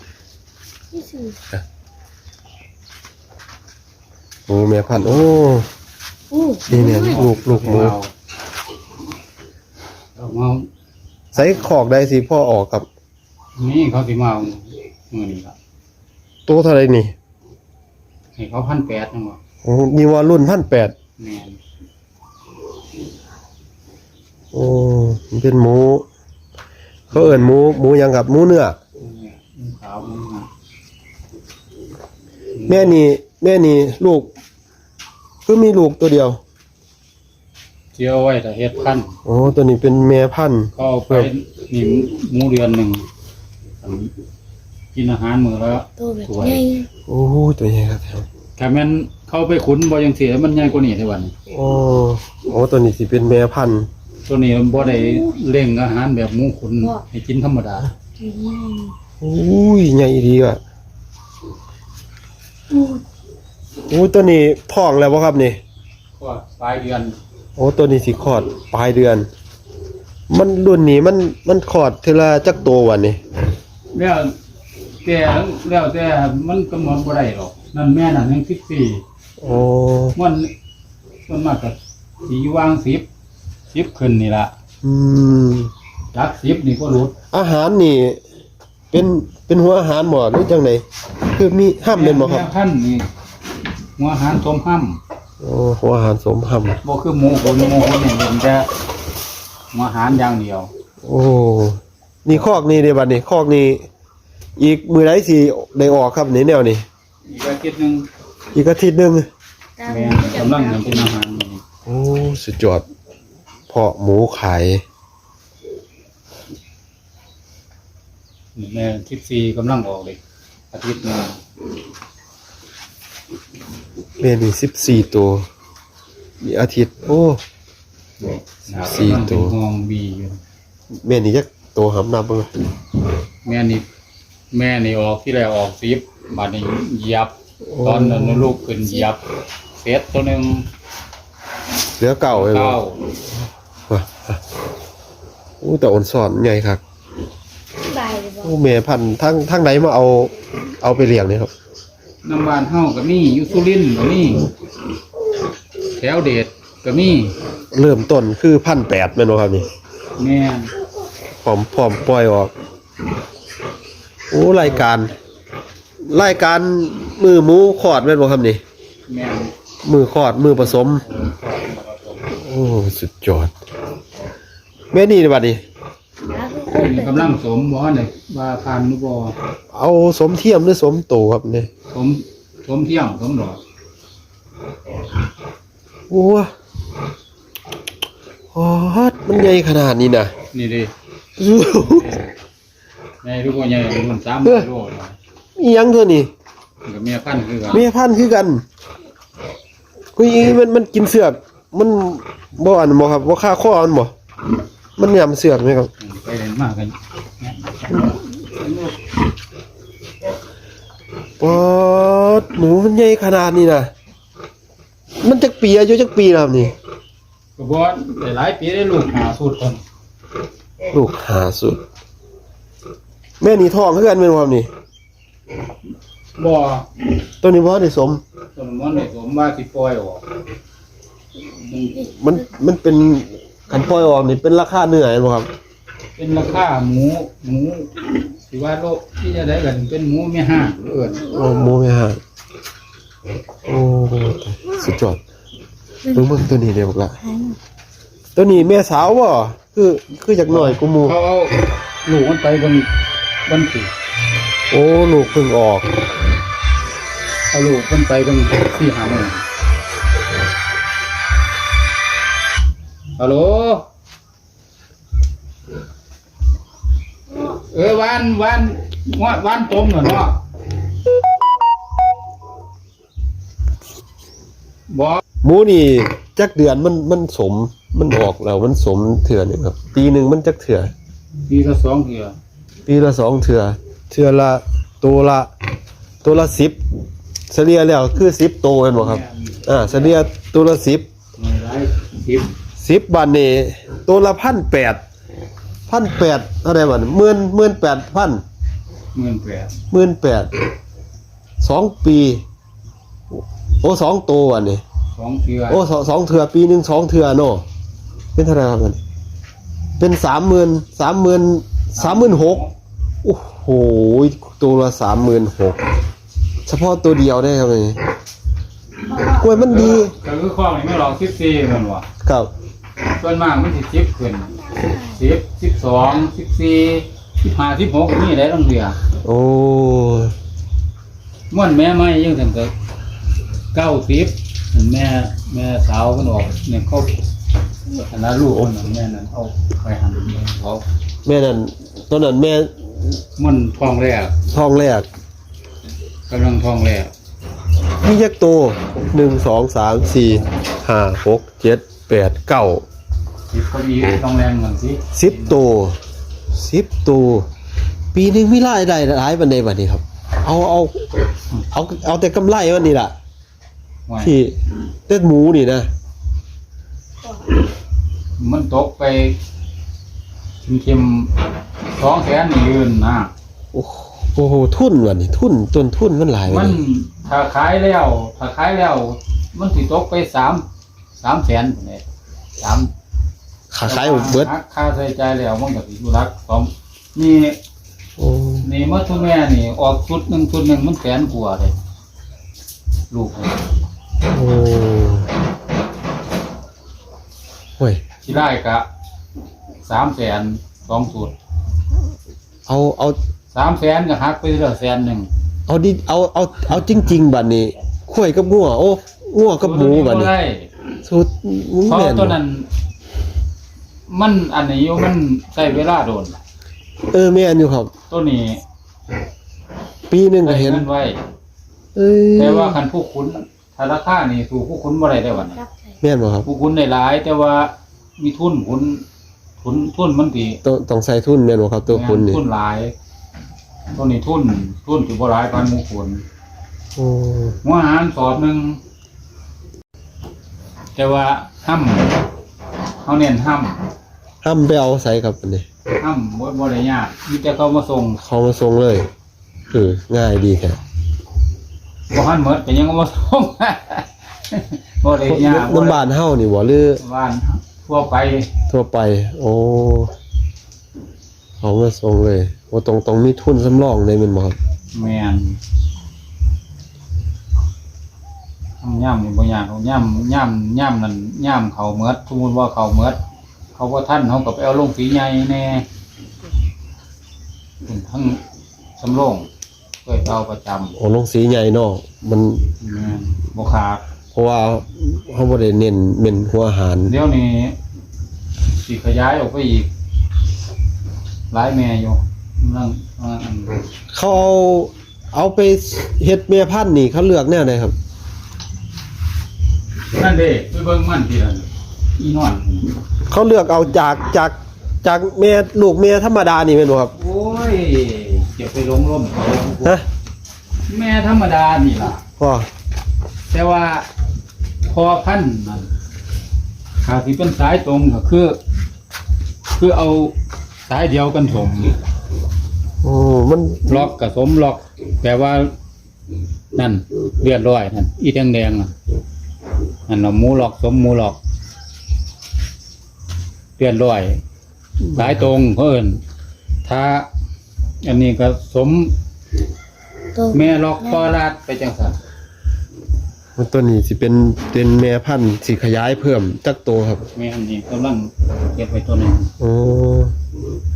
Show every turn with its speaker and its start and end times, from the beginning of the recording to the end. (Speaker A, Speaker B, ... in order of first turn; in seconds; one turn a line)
Speaker A: 0.9-1.4
Speaker B: 4.5-5.7
Speaker A: 6.3-6.9
Speaker B: 6.7-8.0
Speaker C: 6.8-8.1
Speaker C: 10.2-10.7
Speaker C: 11.3-11.8
Speaker B: 11.3-12.9
Speaker C: 13.6-15.6
Speaker B: 16.5-17.1
Speaker C: 18.4-19.4
Speaker B: 19.6-20.9
Speaker C: 21.2-21.6
Speaker B: 24.5-26.1
Speaker B: 27.1-28.8
Speaker C: 27.1-27.6
Speaker C: 29.0-30.5
Speaker C: 32.5-32.9
Speaker B: 32.7-34.3
Speaker B: 35.5-36.4
Speaker C: 38.0-39.1
Speaker B: 39.3-41.3
Speaker C: 40.8-43.1
Speaker C: 43.8-44.1
Speaker C: 44.9-46.7
Speaker A: 46.0-46.9
Speaker B: 47.1-48.3
Speaker C: 48.6-51.3
Speaker B: 51.5-53.9
Speaker C: 54.3-57.9
Speaker A: 58.2-58.9
Speaker B: 59.2-60.6
Speaker A: 62.7-63.0
Speaker B: 63.9-65.6
Speaker C: 66.2-67.2
Speaker B: 67.6-69.3
Speaker B: 70.3-73.2
Speaker C: 73.9-74.3
Speaker C: 75.0-79.0
Speaker B: 79.4-80.2
Speaker C: 80.2-80.5
Speaker C: 81.3-83.1
Speaker C: 83.7-84.5
Speaker B: 84.8-85.7
Speaker C: 86.1-87.2
Speaker B: 87.3-88.2
Speaker B: 88.9-92.5
Speaker C: 91.9-93.1
Speaker C: 94.0-95.0
Speaker B: 95.4-96.8
Speaker C: 96.8-98.7
Speaker C: 99.7-100.7
Speaker B: 101.0-103.9
Speaker B: 104.6-106.8
Speaker C: 107.3-108.1
Speaker B: 108.5-109.3
Speaker A: 109.8-110.8
Speaker C: 109.8-111.6
Speaker B: 111.9-112.8
Speaker B: 113.7-114.8
Speaker C: 118.6-120.2
Speaker C: 120.7-121.4
Speaker B: 124.2-125.5
Speaker B: 126.4-127.4
Speaker C: 128.2-130.4
Speaker B: 128.7-129.6
Speaker B: 131.0-132.5
Speaker C: 133.4-133.9
Speaker C: 134.5-139.3
Speaker B: 137.7-138.6
Speaker C: 139.8-140.7
Speaker B: 142.0-142.8
Speaker C: 142.3-143.0
Speaker B: 143.9-144.4
Speaker B: 145.6-146.8
Speaker A: 147.9-148.4
Speaker B: 148.4-151.5
Speaker C: 152.2-154.5
Speaker C: 155.9-157.3
Speaker B: 157.7-159.7
Speaker C: 160.2-160.7
Speaker B: 161.4-162.5
Speaker B: 164.3-165.1
Speaker B: 166.0-168.6
Speaker C: 169.1-169.5
Speaker B: 169.8-171.0
Speaker C: 170.5-172.3
Speaker B: 172.3-173.5
Speaker B: 174.9-175.6
Speaker A: 176.3-177.3
Speaker C: 176.7-179.4
Speaker B: 179.7-181.7
Speaker C: 181.9-183.6
Speaker B: 186.1-186.5
Speaker B: 188.5-190.3
Speaker C: 190.5-190.9
Speaker B: 191.4-192.2
Speaker C: 191.7-192.3
Speaker C: 193.2-195.2
Speaker B: 194.4-194.7
Speaker B: 195.6-196.3
Speaker C: 196.9-197.8
Speaker B: 197.7-198.6
Speaker B: 200.2-204.1
Speaker B: 205.0-205.9
Speaker C: 206.0-209.0
Speaker B: 211.4-213.9
Speaker B: 215.2-216.7
Speaker C: 217.6-219.8
Speaker B: 220.9-221.8
Speaker B: 223.4-224.7
Speaker C: 226.4-226.9
Speaker B: 227.4-228.2
Speaker C: 228.6-230.2
Speaker C: 231.7-232.1
Speaker B: 232.0-235.5
Speaker C: 236.2-241.3
Speaker B: 241.3-242.2
Speaker B: 243.7-245.2
Speaker B: 246.1-247.3
Speaker B: 248.4-251.2
Speaker C: 250.5-252.9
Speaker C: 253.5-253.9
Speaker B: 254.7-255.9
Speaker C: 257.5-259.4
Speaker C: 263.2-263.9
Speaker C: 267.4-270.4
Speaker C: 274.9-275.2
Speaker B: 275.4-280.9
Speaker C: 281.5-282.4
Speaker B: 282.9-285.5
Speaker B: 286.2-286.8
Speaker B: 287.5-291.1
Speaker C: 288.9-290.2
Speaker C: 291.4-292.5
Speaker B: 292.8-295.0
Speaker B: 295.9-298.4
Speaker C: 299.1-299.7
Speaker B: 299.9-300.5
Speaker B: 301.6-302.4
Speaker B: 303.8-304.8
Speaker C: 305.1-305.8
Speaker B: 305.7-307.6
Speaker B: 308.4-309.0
Speaker B: 310.0-312.6
Speaker C: 311.9-312.7
Speaker B: 313.2-315.9
Speaker B: 316.7-318.0
Speaker B: 319.1-320.1
Speaker C: 319.2-322.1
Speaker B: 322.2-322.5
Speaker C: 323.1-329.0
Speaker B: 329.2-330.4
Speaker C: 331.5-332.7
Speaker C: 333.7-337.1
Speaker C: 338.0-340.9
Speaker B: 341.2-342.7
Speaker C: 343.4-344.4
Speaker B: 344.5-345.1
Speaker C: 346.3-347.1
Speaker B: 348.0-352.9
Speaker C: 353.5-355.6
Speaker B: 355.1-356.0
Speaker B: 356.5-357.5
Speaker B: 358.1-361.1
Speaker B: 361.7-363.1
Speaker C: 364.1-364.4
Speaker B: 364.2-365.9
Speaker C: 368.4-369.4
Speaker C: 370.6-371.3
Speaker C: 372.0-373.3
Speaker B: 373.7-376.8
Speaker C: 376.5-382.0
Speaker C: 382.6-382.9
Speaker B: 383.7-384.5
Speaker C: 383.8-387.6
Speaker B: 388.2-388.7
Speaker C: 388.6-391.7
Speaker C: 393.1-393.6
Speaker B: 394.3-395.3
Speaker C: 398.2-398.9
Speaker C: 399.8-401.3
Speaker B: 402.7-403.2
Speaker C: 403.5-405.3
Speaker B: 405.7-410.3
Speaker C: 409.6-410.7
Speaker B: 411.1-412.4
Speaker C: 411.9-412.7
Speaker C: 414.1-416.4
Speaker B: 417.1-417.9
Speaker C: 418.1-418.6
Speaker B: 420.1-420.9
Speaker C: 420.4-421.2
Speaker B: 421.9-422.8
Speaker C: 422.4-425.6
Speaker B: 426.0-426.5
Speaker C: 426.4-429.0
Speaker C: 429.6-430.6
Speaker B: 430.6-432.4
Speaker C: 431.9-432.9
Speaker C: 433.9-436.2
Speaker B: 437.0-437.6
Speaker C: 437.6-438.8
Speaker C: 441.0-442.2
Speaker C: 443.0-443.8
Speaker B: 444.4-445.7
Speaker C: 446.0-448.2
Speaker B: 448.2-449.1
Speaker B: 449.7-450.8
Speaker C: 452.1-456.1
Speaker B: 455.1-457.0
Speaker C: 457.0-458.5
Speaker B: 458.7-460.1
Speaker B: 461.6-464.6
Speaker C: 464.9-465.6
Speaker C: 468.8-473.2
Speaker C: 473.8-475.9
Speaker C: 477.8-478.4
Speaker C: 479.0-479.5
Speaker C: 480.1-481.0
Speaker B: 481.0-482.7
Speaker C: 482.8-484.0
Speaker B: 484.3-487.1
Speaker C: 487.1-487.8
Speaker C: 488.8-489.9
Speaker C: 491.5-493.8
Speaker B: 494.1-498.0
Speaker C: 500.1-502.9
Speaker B: 503.3-507.1
Speaker C: 507.2-510.0
Speaker C: 510.9-512.2
Speaker B: 512.4-512.7
Speaker C: 513.5-514.1
Speaker C: 514.9-515.9
Speaker C: 517.0-518.6
Speaker C: 519.7-520.4
Speaker C: 520.9-522.0
Speaker B: 523.0-524.1
Speaker C: 523.9-525.7
Speaker C: 526.7-528.9
Speaker C: 530.1-531.4
Speaker C: 533.8-534.4
Speaker C: 535.1-536.2
Speaker B: 535.1-535.5
Speaker C: 536.9-537.3
Speaker C: 538.0-539.1
Speaker C: 540.5-542.2
Speaker B: 543.6-547.3
Speaker C: 547.4-549.5
Speaker B: 549.6-550.4